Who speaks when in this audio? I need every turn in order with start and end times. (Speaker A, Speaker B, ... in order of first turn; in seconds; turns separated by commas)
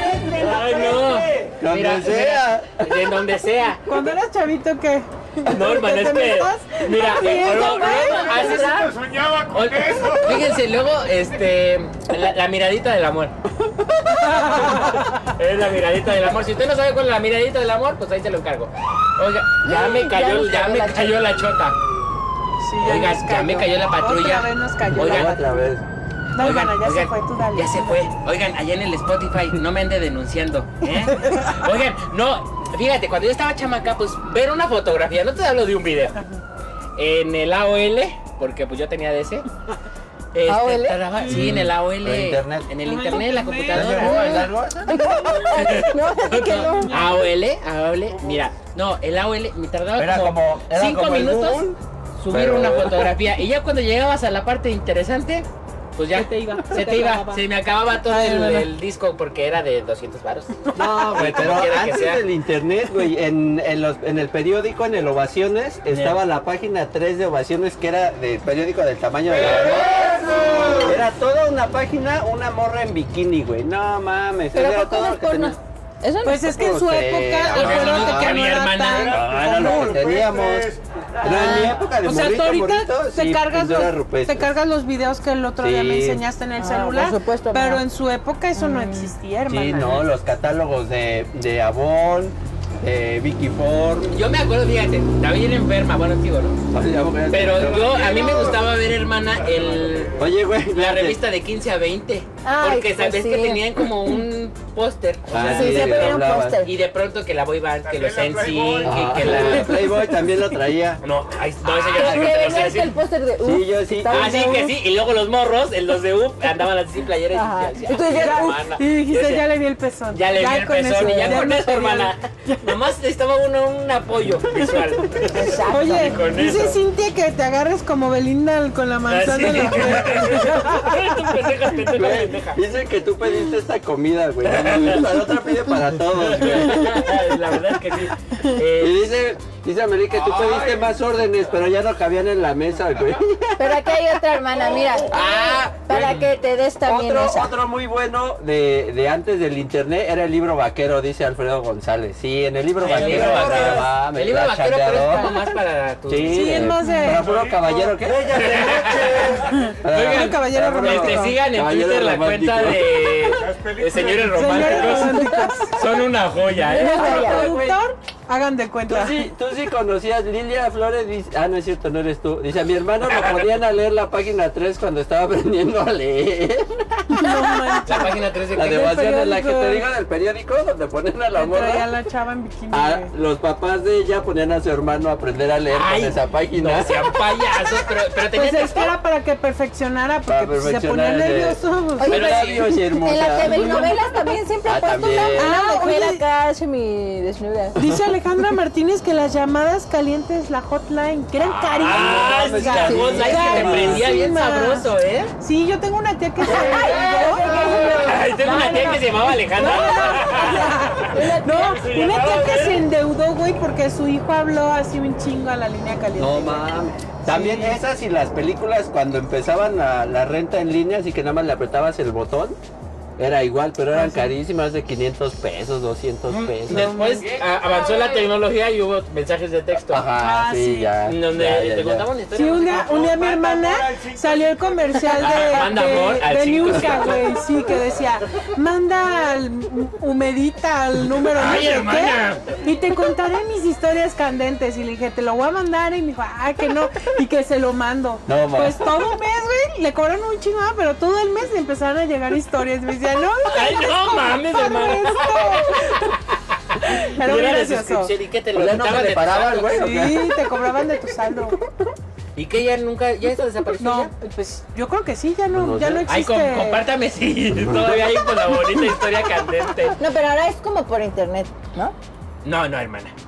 Speaker A: 0.2-3.8, Speaker B: 1.6-2.9, Speaker C: 3.9-8.7, Speaker A: 5.5-8.9, Speaker D: 7.8-10.6, Speaker A: 9.5-13.3, Speaker C: 14.2-15.1, Speaker A: 14.5-21.8, Speaker E: 19.6-21.4, Speaker C: 22.6-25.5, Speaker A: 22.8-25.4, Speaker B: 24.9-25.8, Speaker C: 26.4-28.1, Speaker A: 26.4-36.2, Speaker A: 37.0-39.5, Speaker A: 40.3-44.5, Speaker E: 40.5-41.0, Speaker B: 41.2-42.7, Speaker C: 42.8-44.4, Speaker B: 43.7-45.7, Speaker E: 44.0-46.9, Speaker A: 45.5-51.6, Speaker C: 46.8-47.2, Speaker D: 48.1-48.5, Speaker B: 50.0-51.8, Speaker A: 52.2-62.2, Speaker B: 52.3-53.1, Speaker C: 56.1-57.4, Speaker C: 58.0-58.7, Speaker C: 60.7-61.1, Speaker B: 60.7-75.6, Speaker A: 65.9-66.2, Speaker D: 69.5-70.8, Speaker E: 74.5-76.4, Speaker C: 76.2-80.1, Speaker B: 76.4-78.4, Speaker A: 77.5-79.2, Speaker D: 78.9-80.8, Speaker B: 79.1-80.7, Speaker B: 81.2-84.5, Speaker E: 81.2-81.8, Speaker C: 81.3-90.0, Speaker B: 85.6-86.2, Speaker E: 86.6-87.8, Speaker E: 88.5-89.1, Speaker B: 89.5-94.2, Speaker A: 94.1-96.6, Speaker B: 96.7-98.2, Speaker A: 97.3-109.9, Speaker D: 97.5-100.3, Speaker B: 100.2-101.2, Speaker E: 102.4-103.9, Speaker B: 105.3-106.6, Speaker E: 105.3-106.7, Speaker D: 107.8-109.5, Speaker B: 108.8-111.0, Speaker A: 111.0-113.0, Speaker E: 111.8-114.7, Speaker B: 111.9-112.5, Speaker B: 113.4-114.4, Speaker A: 114.1-119.5, Speaker E: 117.3-118.6, Speaker C: 118.1-122.7, Speaker A: 120.1-126.8, Speaker E: 121.0-121.5, Speaker E: 125.2-126.2, Speaker C: 125.7-131.0, Speaker A: 129.1-132.6, Speaker B: 131.9-137.1, Speaker A: 134.5-135.1, Speaker A: 136.1-139.1, Speaker B: 138.8-144.2, Speaker D: 140.1-140.9, Speaker E: 143.6-147.5, Speaker D: 144.6-145.0, Speaker B: 145.1-146.2, Speaker A: 145.9-146.2, Speaker B: 146.8-155.3, Speaker A: 152.8-156.7, Speaker D: 152.9-153.8, Speaker B: 156.1-163.0, Speaker C: 156.3-157.3, Speaker D: 157.0-159.7, Speaker A: 158.3-167.8, Speaker C: 159.6-161.4, Speaker D: 163.3-165.0, Speaker C: 164.3-165.9, Speaker E: 165.1-165.5, Speaker E: 166.6-167.6, Speaker C: 166.7-169.2, Speaker B: 168.9-178.0, Speaker A: 173.0-173.5, Speaker C: 177.1-179.8, Speaker A: 177.8-178.9, Speaker B: 178.5-181.9, Speaker C: 181.4-183.1, Speaker B: 182.7-187.0, Speaker A: 185.7-188.9, Speaker C: 188.3-192.1, Speaker B: 190.3-193.9, Speaker E: 192.0-197.8, Speaker A: 192.1-192.7, Speaker C: 193.4-193.9, Speaker B: 194.6-195.6, Speaker C: 195.3-196.2, Speaker C: 197.8-204.8, Speaker A: 201.5-205.3, Speaker B: 201.7-204.1, Speaker C: 205.4-216.7, Speaker E: 206.4-211.8, Speaker A: 207.9-212.8, Speaker B: 216.2-222.6, Speaker C: 217.2-217.8, Speaker B: 223.2-227.0, Speaker C: 223.9-224.3, Speaker A: 226.3-230.1, Speaker C: 226.7-227.3, Speaker D: 227.2-228.2, Speaker B: 229.9-232.1, Speaker C: 230.2-230.9, Speaker A: 231.0-233.0, Speaker C: 232.3-256.1, Speaker D: 232.6-235.8, Speaker A: 235.1-237.2, Speaker A: 241.2-242.5, Speaker B: 248.3-248.9, Speaker A: 253.5-260.1, Speaker C: 256.8-258.1, Speaker B: 258.5-260.3, Speaker C: 259.7-261.6, Speaker A: 262.4-264.1, Speaker C: 263.8-266.8, Speaker B: 265.5-266.1, Speaker A: 266.1-269.9, Speaker B: 267.6-268.2, Speaker E: 269.9-271.9, Speaker A: 272.4-273.1